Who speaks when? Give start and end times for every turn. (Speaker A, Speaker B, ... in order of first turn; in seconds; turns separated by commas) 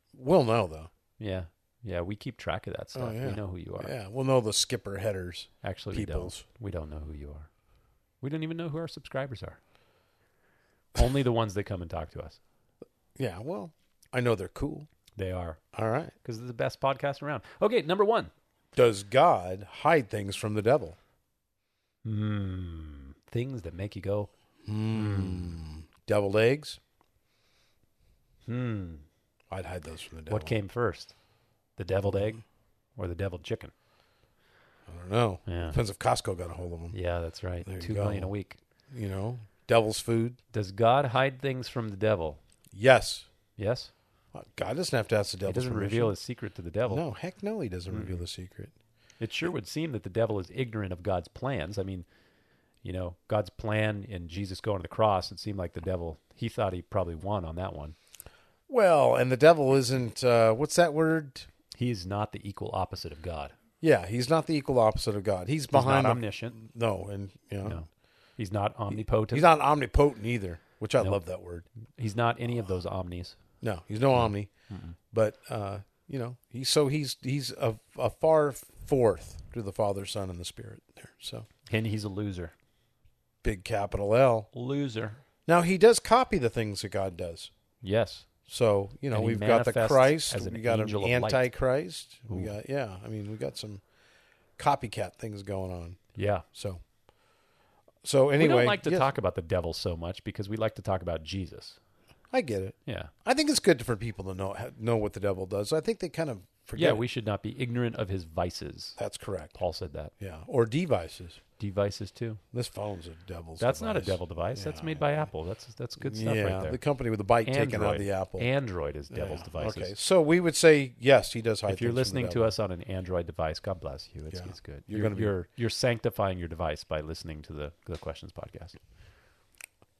Speaker A: 0.1-0.9, Speaker B: 1.2-3.9, Speaker A: 2.9-6.4, Speaker B: 5.6-7.5, Speaker B: 8.2-9.6, Speaker B: 10.9-12.4, Speaker A: 13.2-14.9, Speaker B: 15.2-15.6, Speaker A: 15.7-16.1, Speaker B: 16.2-18.3, Speaker A: 18.8-21.0, Speaker B: 22.0-24.3, Speaker A: 24.6-26.8, Speaker B: 24.9-25.6, Speaker B: 28.5-29.1, Speaker A: 29.5-30.6, Speaker B: 30.3-31.1, Speaker B: 31.8-32.4, Speaker B: 33.0-33.7, Speaker A: 34.9-37.0, Speaker B: 35.5-35.8, Speaker B: 36.9-38.6, Speaker A: 37.6-38.3, Speaker A: 38.9-40.4, Speaker B: 40.5-42.4, Speaker A: 42.7-43.3, Speaker B: 43.6-43.9, Speaker A: 44.3-46.1, Speaker B: 45.5-47.0, Speaker A: 46.9-48.7, Speaker B: 47.9-48.2, Speaker B: 49.2-52.1, Speaker B: 52.8-58.0, Speaker A: 58.7-61.5, Speaker B: 61.7-63.5, Speaker A: 63.8-67.8, Speaker B: 65.7-66.6, Speaker B: 67.7-69.5, Speaker A: 68.9-71.7, Speaker B: 72.0-73.4, Speaker A: 73.6-74.5, Speaker B: 74.7-75.0, Speaker A: 75.1-81.5, Speaker B: 81.7-82.5, Speaker A: 83.4-84.5, Speaker B: 84.5-85.2, Speaker A: 85.5-87.5, Speaker B: 87.8-88.3, Speaker A: 88.5-93.8, Speaker B: 89.1-91.5, Speaker A: 94.6-96.0, Speaker B: 96.2-96.5, Speaker A: 96.5-96.8, Speaker A: 98.0-99.1, Speaker B: 98.4-101.8, Speaker A: 102.3-107.0, Speaker B: 102.9-103.1, Speaker B: 106.8-109.0, Speaker A: 109.0-109.6, Speaker B: 109.5-110.1, Speaker A: 110.2-111.4, Speaker B: 111.6-112.4, Speaker A: 112.5-115.3, Speaker B: 113.6-116.8, Speaker A: 116.0-118.5, Speaker B: 117.4-119.9, Speaker A: 119.1-122.5, Speaker B: 121.7-128.8, Speaker A: 124.3-125.3